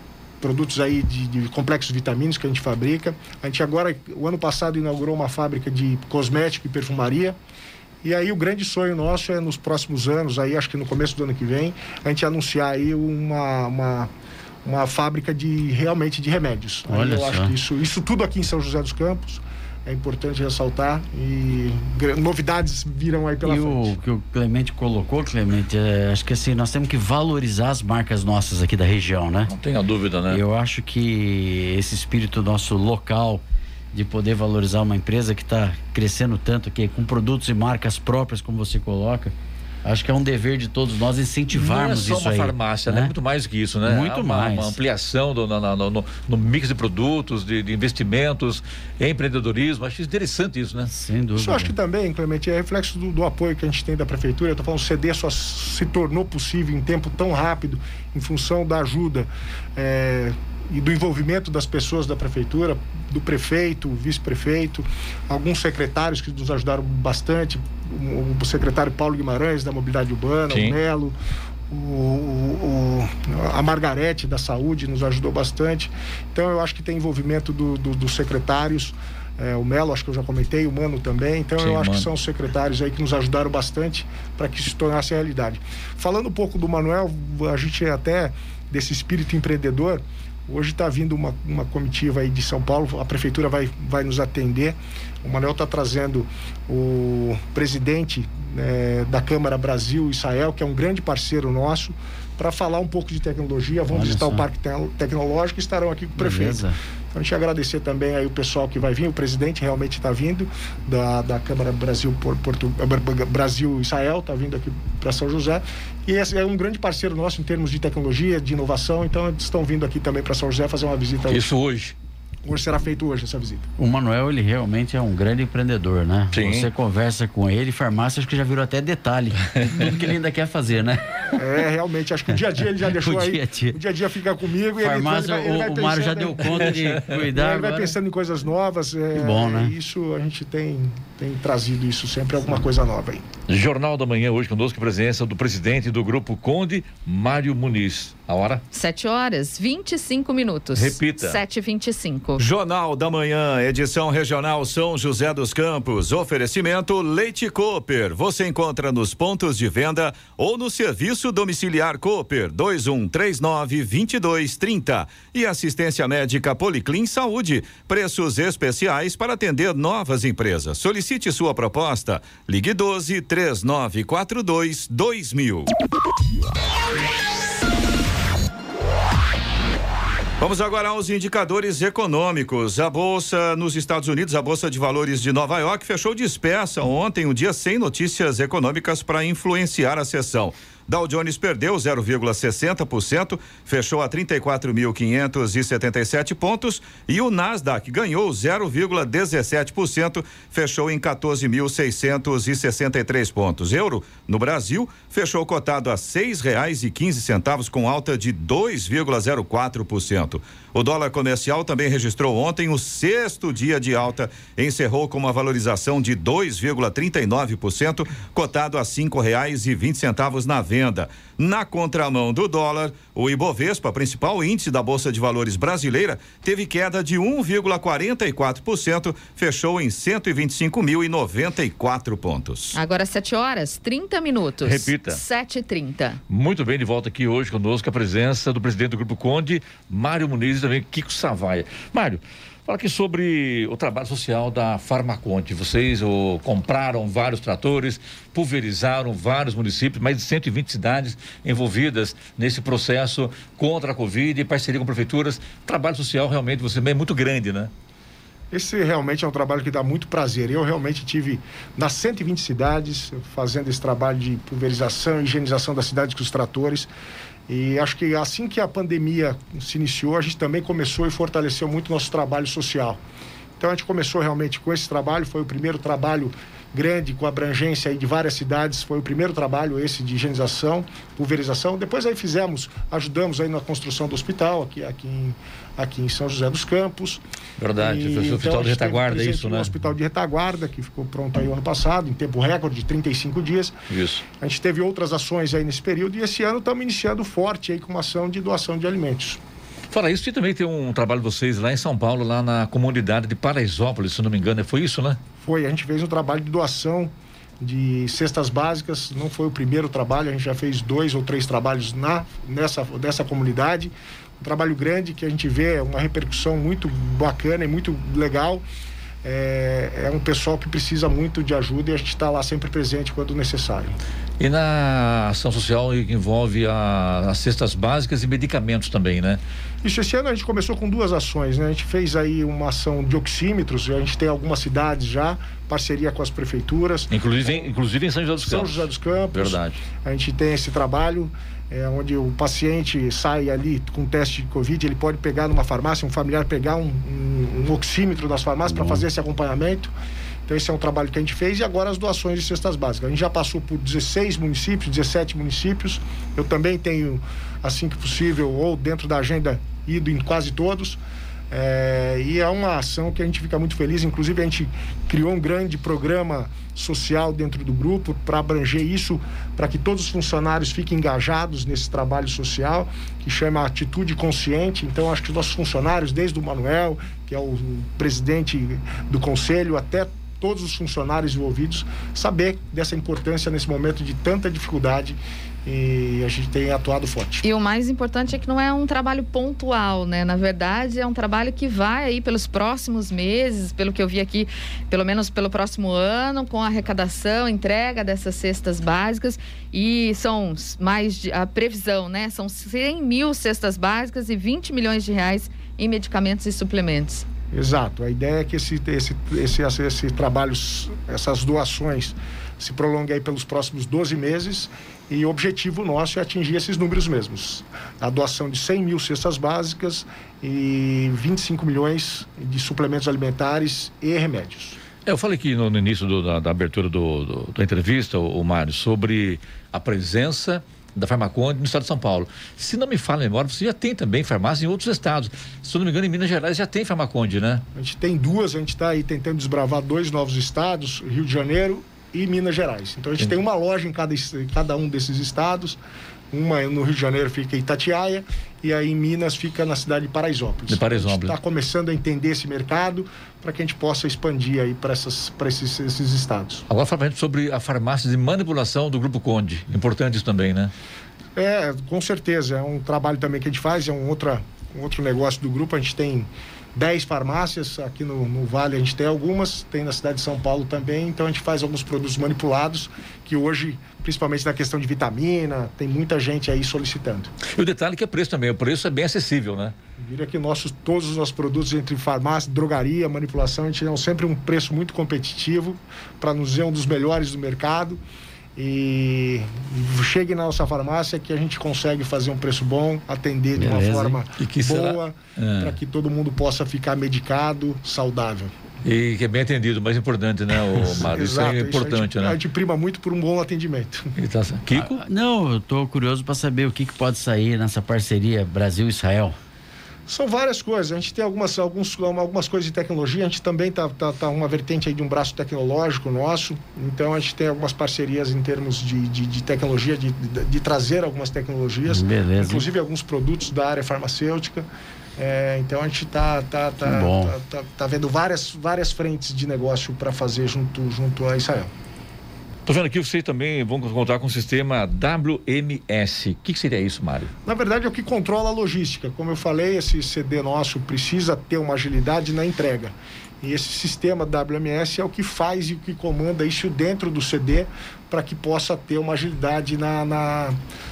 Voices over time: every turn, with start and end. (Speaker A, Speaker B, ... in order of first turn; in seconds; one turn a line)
Speaker A: 0.4-7.4
Speaker A: 8.0-14.1
Speaker A: 14.7-24.0
Speaker B: 16.9-17.5
Speaker B: 23.4-29.5
Speaker C: 29.5-30.4
Speaker B: 30.3-33.4
Speaker B: 33.9-39.3
Speaker B: 39.9-43.1
Speaker C: 41.5-50.9
Speaker B: 43.8-44.8
Speaker B: 50.9-51.7
Speaker A: 51.4-71.2
Speaker C: 70.5-70.8
Speaker A: 71.7-121.5
Speaker C: 81.6-82.1
Speaker B: 103.9-104.4
Speaker B: 106.2-106.8
Speaker C: 121.3-122.0
Speaker A: 122.5-123.7
Speaker B: 123.8-131.4
Speaker C: 126.3-126.7
Speaker A: 131.3-143.2
Speaker B: 132.9-133.8
Speaker B: 134.8-137.9
Speaker B: 139.2-139.7
Speaker C: 143.5-148.6
Speaker D: 148.7-152.4
Speaker C: 150.7-151.4
Speaker E: 152.4-175.7
Speaker E: 180.4-232.8
Speaker D: 232.7-236.2
Speaker C: 234.6-235.2
Speaker C: 236.3-257.7
Speaker A: 258.5-266.9
Speaker A: 267.5-273.0
Speaker A: 273.6-287.2
Speaker C: 287.6-289.7
Speaker A: 287.8-293.8
Speaker C: 293.9-294.2
Speaker A: 294.4-299.4
Speaker C: 299.9-305.2
Speaker A: 305.4-318.6
Speaker A: 319.2-324.0
Speaker C: 324.4-329.4
Speaker A: 329.8-337.7
Speaker C: 337.1-339.8
Speaker A: 338.4-349.9
Speaker B: 348.7-349.0
Speaker A: 350.5-387.4
Speaker D: 387.4-407.2
Speaker A: 407.5-424.8
Speaker C: 425.1-437.6
Speaker A: 437.8-445.8
Speaker A: 446.3-456.6
Speaker C: 450.7-451.4
Speaker C: 456.7-460.7
Speaker A: 461.4-477.3
Speaker C: 477.5-479.7
Speaker A: 480.0-488.0
Speaker A: 488.6-498.6
Speaker B: 493.6-494.2
Speaker C: 494.4-495.8
Speaker C: 498.8-502.4
Speaker A: 500.8-504.1
Speaker C: 504.2-505.1
Speaker B: 504.8-509.4
Speaker A: 510.1-531.7
Speaker B: 521.9-522.7
Speaker B: 526.8-527.4
Speaker C: 532.7-537.3
Speaker A: 537.5-550.6